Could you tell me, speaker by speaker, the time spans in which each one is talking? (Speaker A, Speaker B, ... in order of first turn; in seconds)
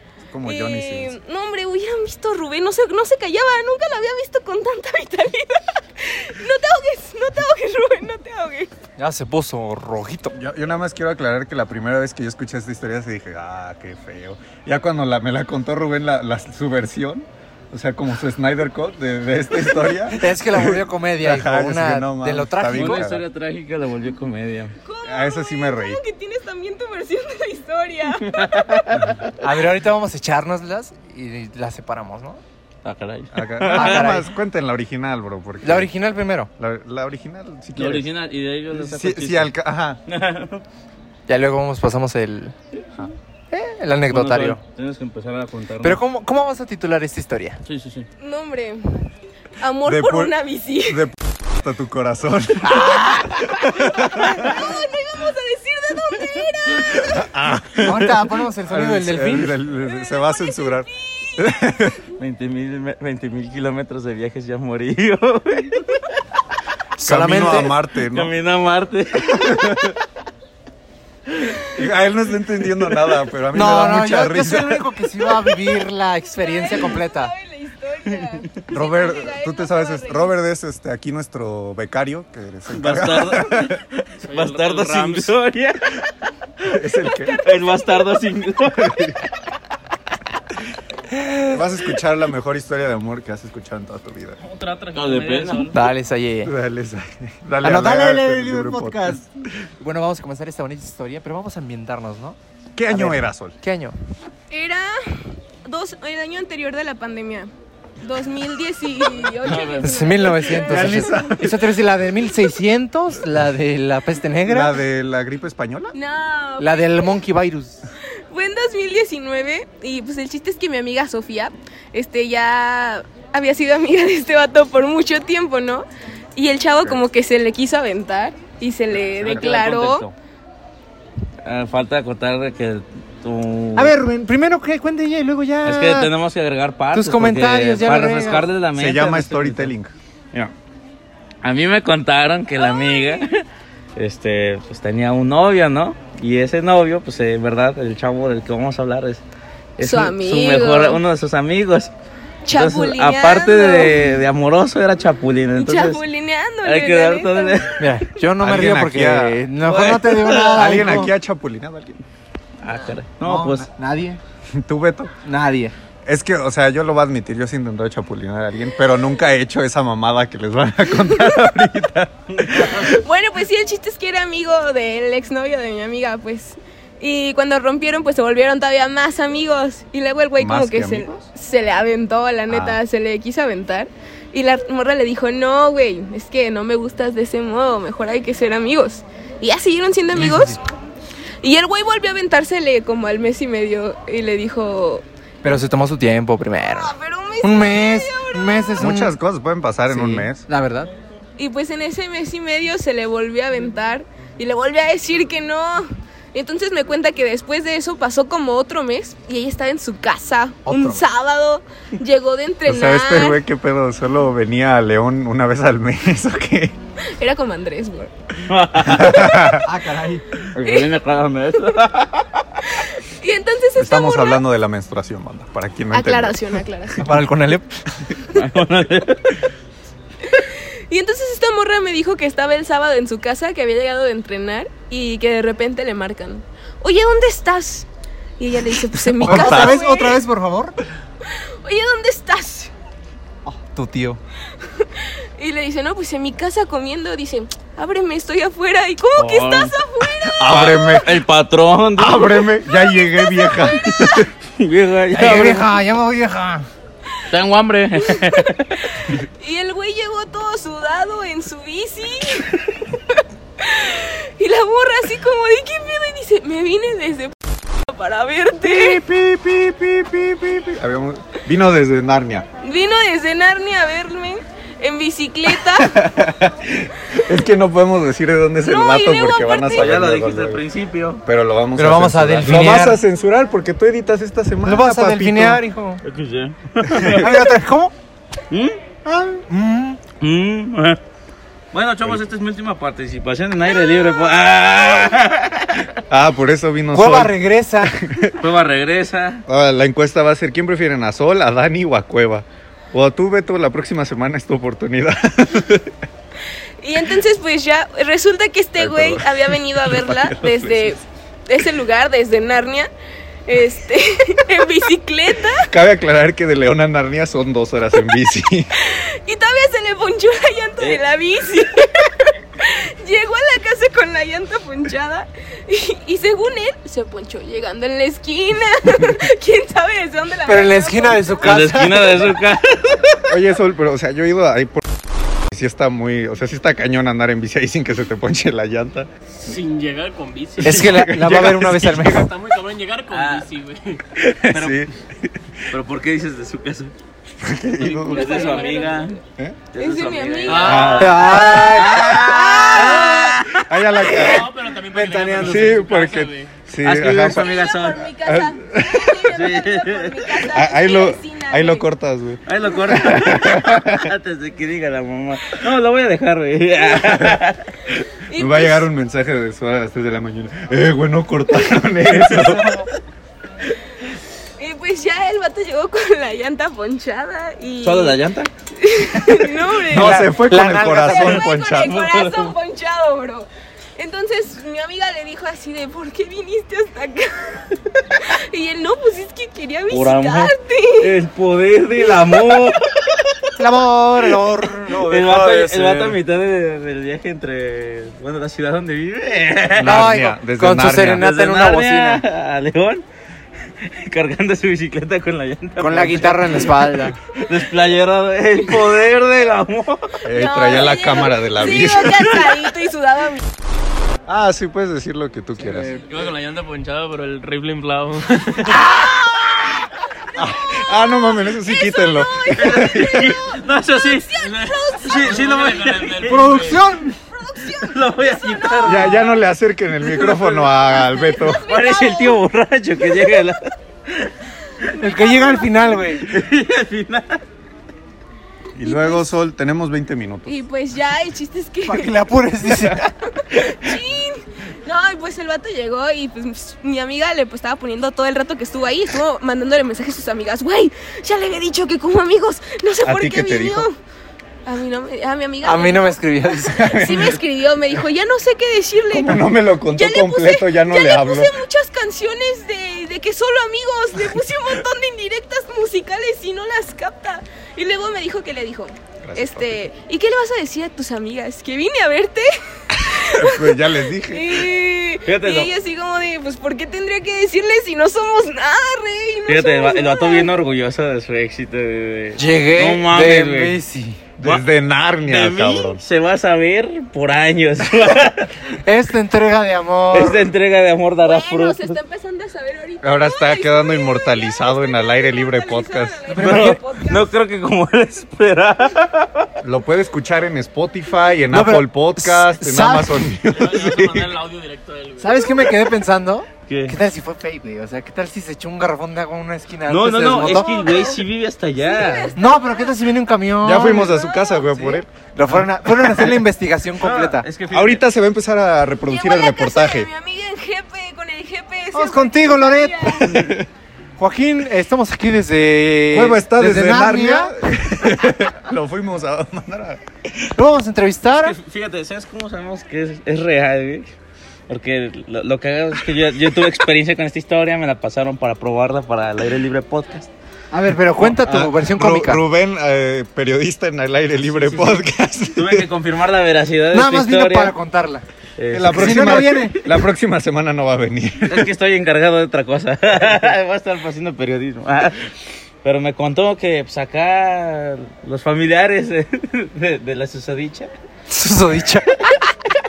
Speaker A: 0.3-1.1, 10.3-23.2, 25.0-26.0, 33.3-35.9, 36.6-38.1, 38.7-40.0, 49.8-54.5, 57.0-62.0, 67.0-68.3, 69.2-70.0, 71.7-74.9, 78.7-83.8, 86.6-87.4, 88.7-89.2, 91.5-94.4, 96.4-99.3, 102.7-103.5, 110.6-111.7, 114.5-115.9, 138.7-139.9, 158.4-159.4, 160.4-162.0, 164.5-165.1, 166.1-172.9, 180.4-181.2, 182.5-182.8, 198.8-200.4, 212.7-216.8, 218.8-219.8, 223.8-227.1, 239.0-239.8, 250.3-251.2, 251.9-254.3, 268.6-272.5, 275.5-280.6, 281.2-285.6, 286.9-287.3, 296.1-298.3, 299.5-305.9, 308.8-311.0, 315.6-318.7, 333.3-334.8, 335.5-339.1, 340.6-342.0, 344.5-345.6, 347.4-348.6, 350.6-351.8, 353.6-354.5, 355.4-357.5, 358.2-359.3, 360.4-364.1, 368.3-372.8, 379.8-382.0, 399.8-401.3, 410.2-412.3, 414.3-415.9, 420.3-423.4, 428.8-431.7, 438.8-440.6, 453.0-453.9, 456.7-457.4, 459.1-461.5, 469.2-469.8, 473.1-474.7, 484.4-486.0, 493.0-496.2, 499.6-504.3, 513.6-516.4, 517.7-520.1, 523.3-523.6, 526.1-530.0, 541.2-545.9, 548.7-551.7
Speaker B: 0.4-8.7, 24.8-28.9, 48.2-49.1, 49.6-51.0, 53.1-57.3, 59.8-61.5, 76.4-80.3, 87.1-87.7, 104.5-111.5, 115.9-117.2, 118.3-130.1, 142.6-143.3, 149.8-151.0, 152.4-154.0, 155.5-158.2, 171.1-171.4, 172.5-190.6, 191.4-195.0, 196.6-198.7, 201.4-213.4, 217.0-218.1, 220.6-220.9, 222.7-224.4, 225.9-227.1, 230.2-237.9, 238.4-240.2, 241.2-242.7, 244.6-250.5, 252.7-254.2, 258.0-269.0, 272.6-275.9, 278.6-280.1, 306.8-312.9, 313.4-315.7, 318.8-331.4, 348.0-349.2, 349.8-353.4, 357.3-361.8, 368.3-368.9, 374.6-378.2, 378.8-380.3, 381.0-391.1, 410.2-413.4, 420.4-425.7, 427.0-429.4, 430.1-432.4, 433.0-433.5, 434.8-436.0, 438.8-439.2, 440.5-442.2, 443.3-454.0, 454.6-480.5, 491.2-497.3, 510.4-511.2, 511.8-513.0, 513.8-515.0, 519.0-523.4
Speaker C: 9.0-10.3, 20.1-23.1, 29.4-32.4, 33.6-34.3, 35.6-36.5, 41.3-42.5, 43.5-44.6, 45.8-47.6, 57.8-59.5, 67.0-67.7, 73.5-77.3, 95.7-96.5, 97.6-99.2, 99.8-103.9, 109.8-114.7, 116.6-117.8, 133.7-136.1, 136.9-138.5, 157.8-161.1, 163.2-164.2, 165.2-165.7, 190.1-190.6, 195.4-199.1, 199.9-200.9, 210.6-211.0, 219.5-220.2, 227.0-227.8, 239.2-240.7, 243.4-244.2, 255.1-256.6, 281.8-283.0, 284.6-286.0, 287.0-287.9, 289.0-290.0, 296.9-298.0, 330.4-332.3, 340.6-342.3, 351.0-353.2, 354.9-355.8, 379.9-381.3, 393.6-396.2, 399.8-402.2, 405.8-407.2, 426.2-427.2, 434.9-436.3, 441.8-443.1, 455.6-457.0, 482.4-484.2, 488.8-490.5, 496.3-496.8, 501.5-503.3, 505.2-510.8, 512.4-514.1, 515.3-517.5, 521.9-523.4, 524.2-527.5, 530.5-531.6, 540.7-542.4, 546.9-548.2, 548.9-549.8, 561.3-562.5
Speaker D: 22.7-24.7, 28.2-29.1, 32.8-34.1, 37.8-39.5, 40.1-40.6, 44.1-46.0, 47.6-48.1, 62.2-66.0, 68.1-69.8, 82.7-86.7, 87.4-89.2, 94.9-95.7, 129.1-130.1, 131.4-133.9, 135.6-139.7, 141.4-143.4, 143.9-149.2, 149.8-151.9, 152.5-156.0, 156.6-157.8, 159.6-160.8, 162.6-163.7, 172.3-172.9, 218.4-219.5, 220.5-222.5, 228.3-229.5, 249.2-249.8, 250.4-252.5, 253.9-255.7, 257.3-258.9, 279.6-281.2, 286.0-287.4, 288.5-288.8, 290.2-291.0, 291.7-295.9, 298.3-299.4, 331.4-333.3, 343.1-343.5, 344.2-344.9, 345.7-346.9, 347.8-349.2, 349.7-354.3, 356.8-358.1, 359.3-360.3, 362.4-367.9, 377.8-378.5, 381.2-382.6, 389.9-393.4, 394.9-400.0, 401.1-403.0, 403.8-410.2, 422.5-424.4, 425.0-426.7, 427.7-429.2, 431.5-434.3, 436.2-437.4, 475.2-475.7, 479.5-483.8, 485.2-488.6, 490.1-492.0, 496.4-499.5, 506.7-506.9, 509.9-512.4, 517.0-518.0, 531.4-534.1, 534.7-540.3, 545.5-547.7, 548.6-549.8, 551.5-560.9
Speaker E: 84.2-85.3, 94.4-95.8, 109.4-110.0, 339.4-340.9, 341.9-344.0, 350.5-351.2, 354.0-356.5, 416.0-418.9, 424.4-426.8, 503.5-505.5